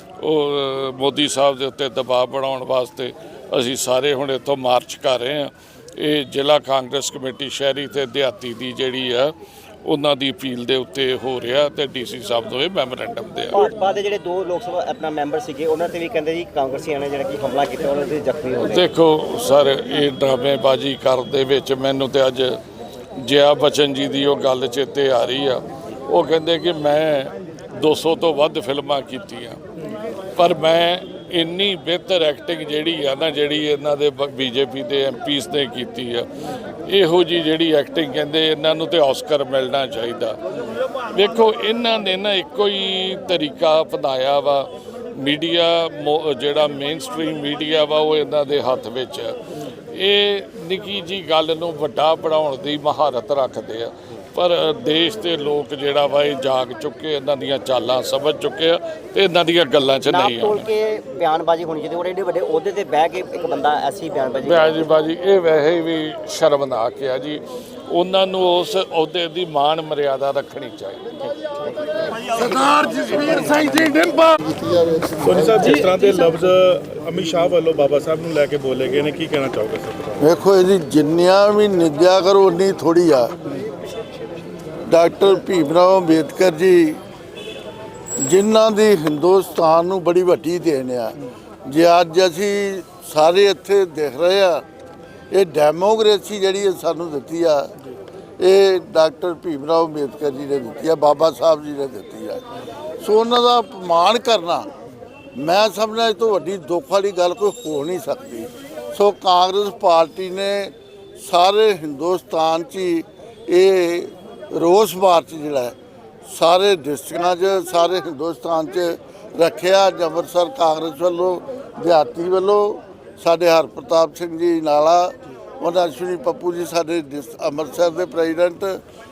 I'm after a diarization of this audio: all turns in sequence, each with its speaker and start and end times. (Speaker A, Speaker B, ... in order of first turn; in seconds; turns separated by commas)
Speaker A: 0.2-13.6, Speaker B: 13.5-18.9, Speaker A: 18.6-22.6, Speaker A: 23.2-29.6, Speaker A: 30.4-36.3, Speaker A: 36.9-40.4, Speaker A: 41.1-49.4, Speaker A: 49.9-60.7, Speaker B: 60.1-64.9, Speaker A: 64.4-71.1, Speaker A: 72.5-74.6, Speaker C: 75.1-80.2, Speaker D: 80.2-83.3, Speaker D: 84.9-87.0, Speaker D: 88.2-94.6, Speaker D: 95.3-97.7, Speaker D: 98.4-102.4, Speaker D: 103.0-104.7, Speaker D: 105.4-128.8